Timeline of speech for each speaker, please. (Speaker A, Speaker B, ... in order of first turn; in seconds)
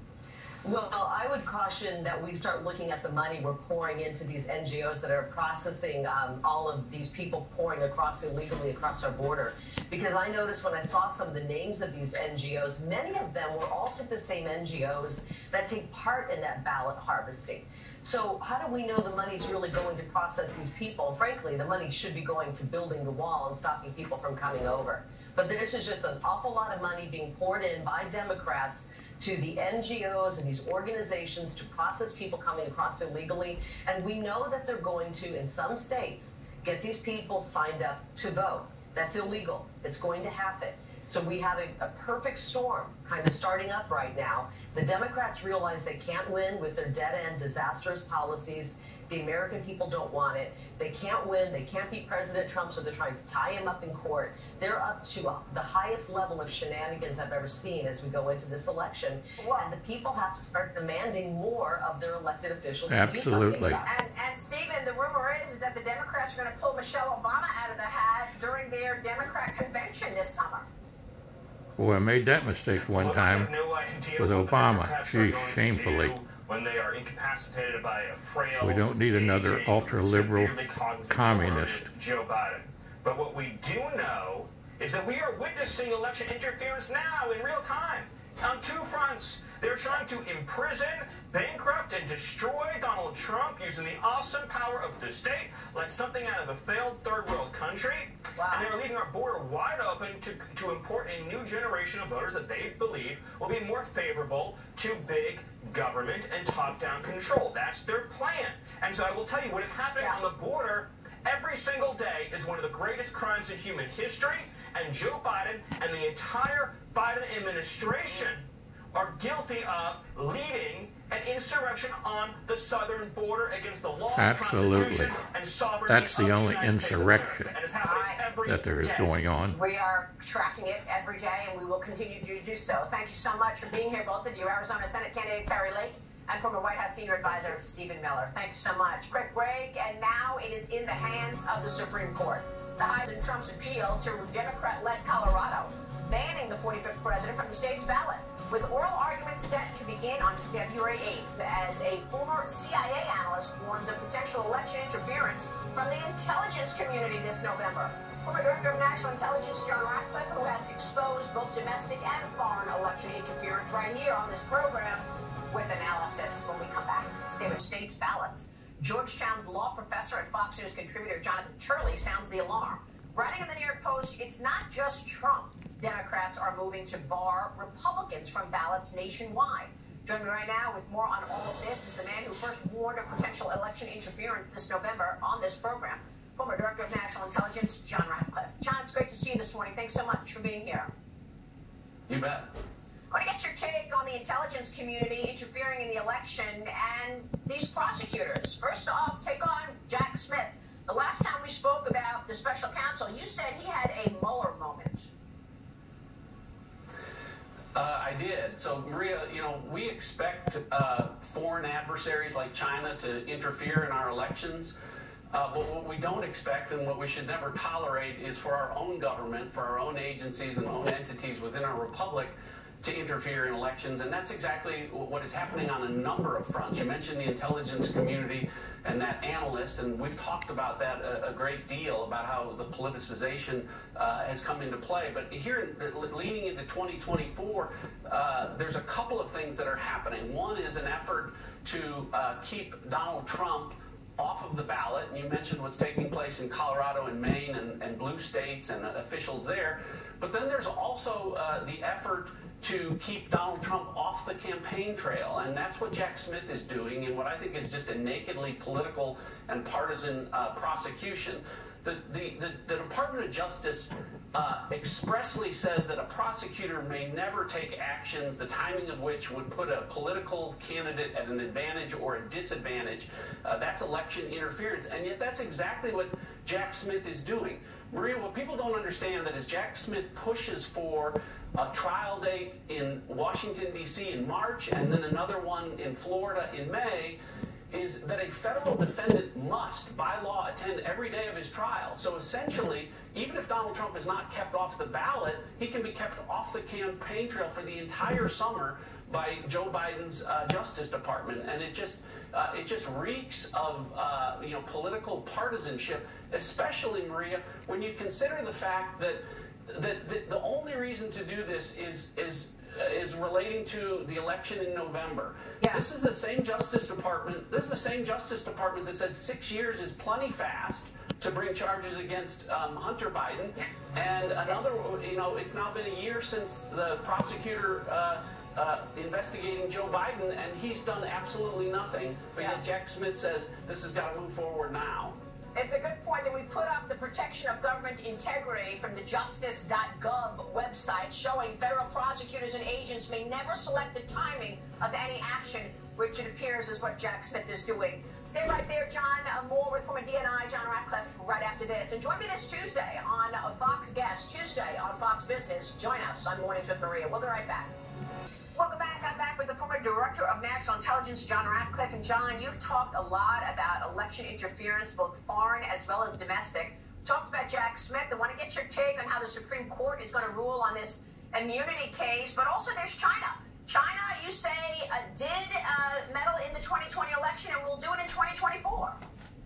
Speaker A: 0.6-63.9
Speaker B: 59.4-59.7, 63.8-70.7, 98.4-98.7, 127.7-128.3, 129.5-190.9, 193.1-205.1, 315.6-315.9, 335.6-357.7, 358.5-379.0
Speaker C: 62.9-63.8, 71.8-73.5, 74.2-76.2, 78.6-80.6, 81.1-81.9, 124.2-125.2, 125.9-127.6, 128.4-129.6
Speaker D: 73.0-129.2
Speaker E: 192.1-192.5, 207.8-214.8, 215.3-287.2, 287.7-335.2